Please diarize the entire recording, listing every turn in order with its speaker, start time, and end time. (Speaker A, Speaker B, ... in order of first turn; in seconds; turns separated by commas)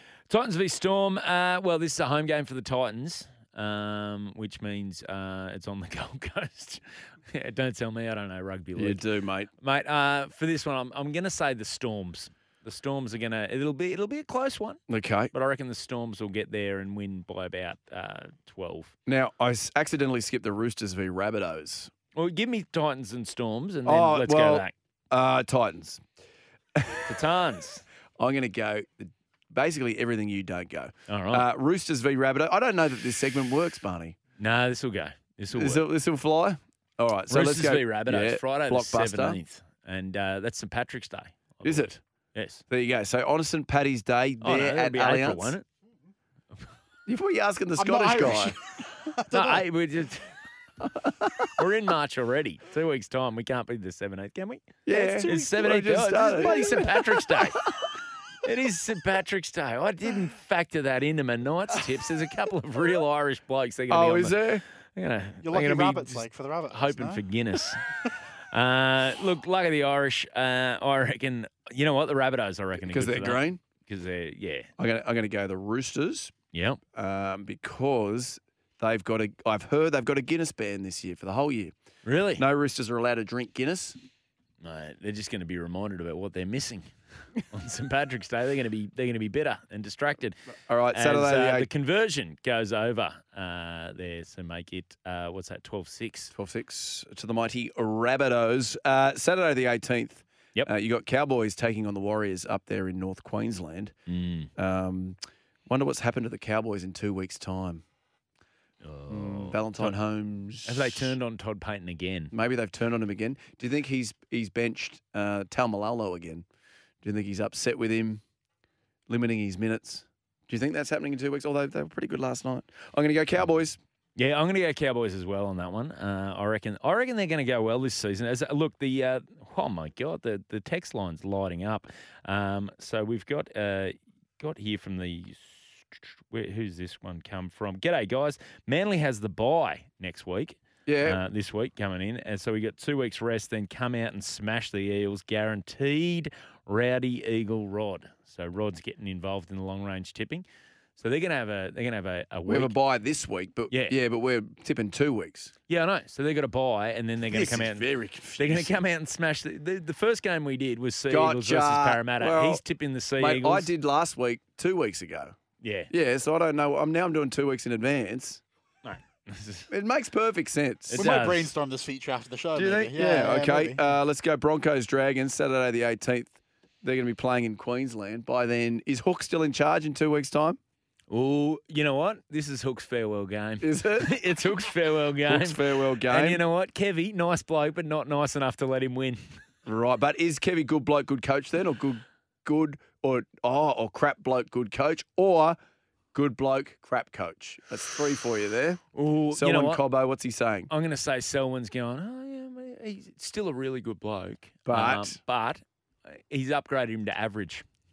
Speaker A: 0.3-9.0, Speaker B: 8.8-9.5, Speaker A: 9.6-14.8, Speaker B: 14.9-15.3, Speaker A: 15.3-18.9, Speaker B: 19.1-21.9, Speaker A: 22.1-24.7, Speaker B: 23.9-26.0, Speaker B: 26.7-27.0, Speaker A: 27.1-27.8, Speaker B: 28.2-34.1, Speaker A: 31.1-31.4, Speaker A: 34.4-35.9, Speaker B: 35.5-39.4, Speaker A: 37.3-42.6, Speaker B: 41.6-42.0, Speaker B: 42.7-45.5, Speaker A: 44.4-45.6, Speaker B: 47.1-48.6, Speaker C: 47.8-49.6, Speaker A: 49.3-50.3, Speaker B: 50.9-51.3, Speaker A: 51.6-57.6, Speaker B: 54.9-57.5, Speaker C: 55.0-55.3, Speaker A: 58.4-64.4, Speaker B: 63.9-64.6, Speaker A: 64.9-67.8, Speaker C: 65.4-67.2, Speaker A: 68.5-74.7, Speaker B: 72.8-73.6, Speaker B: 74.8-76.3, Speaker A: 76.5-76.8, Speaker B: 76.9-81.7, Speaker A: 82.0-82.4, Speaker B: 82.4-84.0, Speaker A: 84.6-86.9, Speaker A: 87.5-90.4, Speaker B: 90.7-91.7, Speaker A: 90.9-96.3, Speaker B: 96.3-103.9, Speaker A: 104.1-104.5, Speaker B: 104.6-107.8, Speaker A: 108.8-110.0, Speaker B: 109.1-111.1, Speaker A: 110.6-112.3, Speaker B: 112.3-116.5, Speaker B: 117.0-118.2, Speaker B: 119.1-123.8, Speaker A: 124.2-150.4, Speaker B: 140.8-141.2, Speaker A: 151.0-152.7, Speaker B: 152.5-155.5, Speaker A: 153.7-153.9, Speaker A: 155.7-163.7, Speaker B: 157.3-158.8, Speaker B: 161.1-162.6, Speaker B: 163.2-165.3, Speaker A: 165.6-165.9, Speaker B: 165.9-168.4, Speaker A: 168.8-169.7, Speaker B: 169.7-171.2, Speaker A: 170.9-171.5, Speaker C: 170.9-173.8, Speaker B: 172.6-180.6, Speaker A: 181.1-189.2, Speaker B: 183.6-184.2, Speaker B: 185.2-186.4, Speaker B: 189.7-195.6, Speaker B: 196.1-200.7, Speaker A: 198.9-199.8, Speaker A: 200.7-207.6, Speaker B: 204.7-205.2